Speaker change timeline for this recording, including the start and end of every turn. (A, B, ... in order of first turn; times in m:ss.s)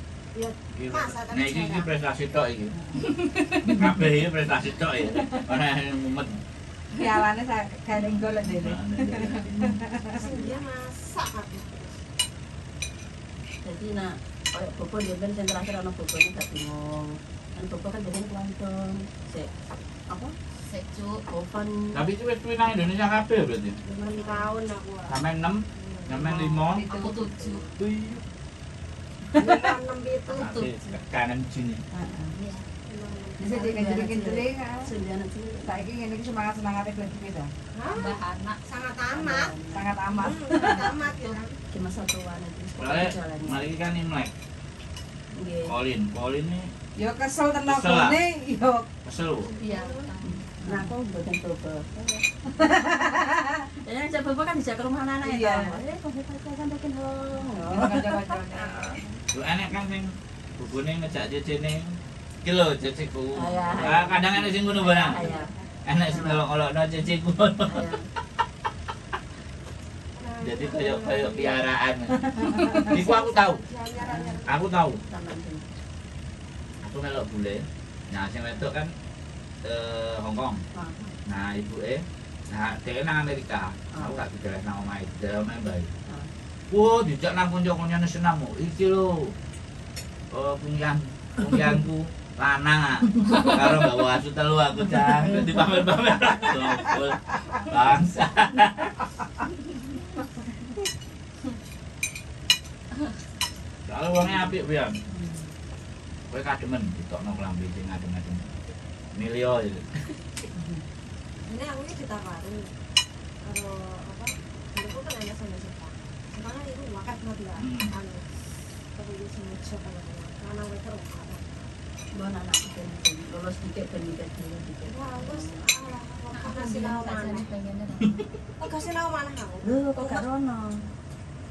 0:00.3-0:01.9 A
0:00.7-0:06.4 B
0:02.8-0:03.1 C
0:03.0-0:03.8 D
0:06.9-0:10.2 C
0:08.1-0:09.9 B
0:10.1-0:12.0 A
0:13.6-0:19.5 E
0:20.1-0:20.4 E
0:20.6-0:21.2 D
0:21.3-0:22.0 E
0:21.9-0:23.8 B
0:23.8-0:25.2 A
0:25.1-0:26.9 B
0:25.7-0:26.1 A
0:26.5-0:27.2 C
0:26.9-0:27.7 D
0:27.7-0:28.2 B
0:29.4-0:30.6 A
0:30.3-0:31.8 B
0:30.4-0:30.7 D
0:31.9-0:32.4 C
0:32.3-0:32.7 D
0:32.8-0:33.7 A
0:33.4-0:34.9 C
0:33.6-0:35.9 E
0:35.6-0:37.5 C
0:37.7-0:39.5 A
0:37.9-0:38.6 D
0:39.1-0:39.9 E
0:39.7-0:40.8 C
0:40.1-0:41.6 A
0:40.5-0:41.4 D
0:41.7-0:43.7 E
0:42.8-0:44.3 B
0:45.3-0:45.7 E
0:45.6-0:46.7 B
0:47.0-0:48.9 C
0:47.7-0:48.2 B
0:49.0-0:49.5 B
0:49.4-0:50.1 A
0:49.6-0:50.5 D
0:50.6-0:53.0 E
0:52.5-0:53.7 C
0:53.8-0:58.4 E
0:55.2-0:55.8 C
0:57.6-0:59.0 C
0:59.3-1:05.2 B
1:03.3-1:05.5 E
1:04.9-1:05.7 A
1:05.9-1:08.0 B
1:06.1-1:06.5 E
1:07.6-1:08.1 E
1:10.1-1:11.7 A
1:10.4-1:13.6 B
1:12.5-1:14.6 A
1:14.0-1:14.3 E
1:14.4-1:15.0 B
1:15.1-1:15.6 E
1:16.8-1:18.9 B
1:19.6-1:20.6 B
1:20.7-1:21.0 E
1:21.2-1:25.9 B
1:26.7-1:29.3 B
1:30.3-1:39.0 B
1:43.9-1:45.0 B
1:46.3-1:48.5 B
1:49.1-1:50.1 B
1:51.4-1:52.8 A
1:53.4-2:01.5 A
1:57.6-1:57.9 B
2:02.1-2:05.6 E
2:04.9-2:07.5 A
2:06.3-2:08.2 D
2:08.6-2:10.2 A
2:09.6-2:10.9 E